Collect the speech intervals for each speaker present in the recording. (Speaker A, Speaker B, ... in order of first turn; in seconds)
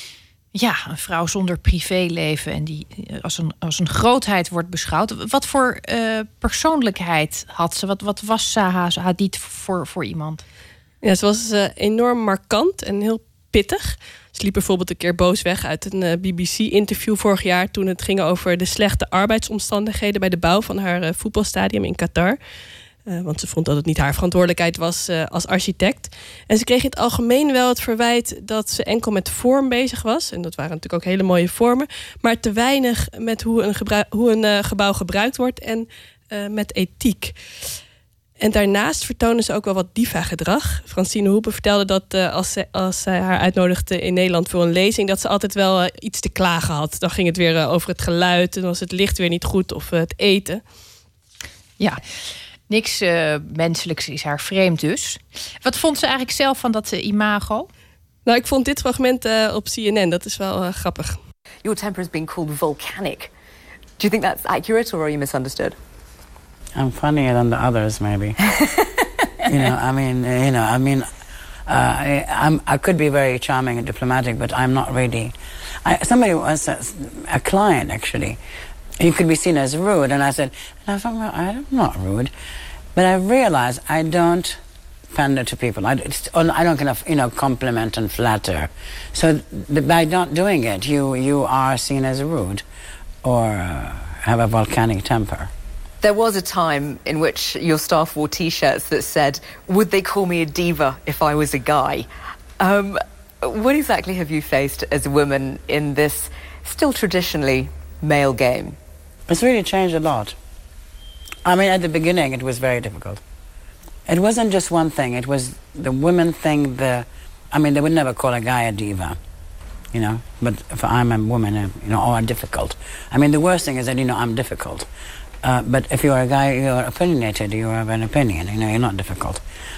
Speaker A: 0.5-10.4, 52.7-57.7
Speaker B: 11.0-22.4, 23.1-37.4, 38.4-50.6, 58.2-61.2
Speaker C: 61.6-63.3, 64.0-65.8, 96.0-102.1, 102.6-108.8
Speaker D: 66.8-68.4, 69.4-71.1, 71.7-75.3, 75.8-78.4, 79.0-82.3, 82.9-84.6, 85.1-92.6, 93.2-95.5, 109.3-110.3, 111.4-113.2, 114.1-119.2, 119.9-124.9, 125.4-129.4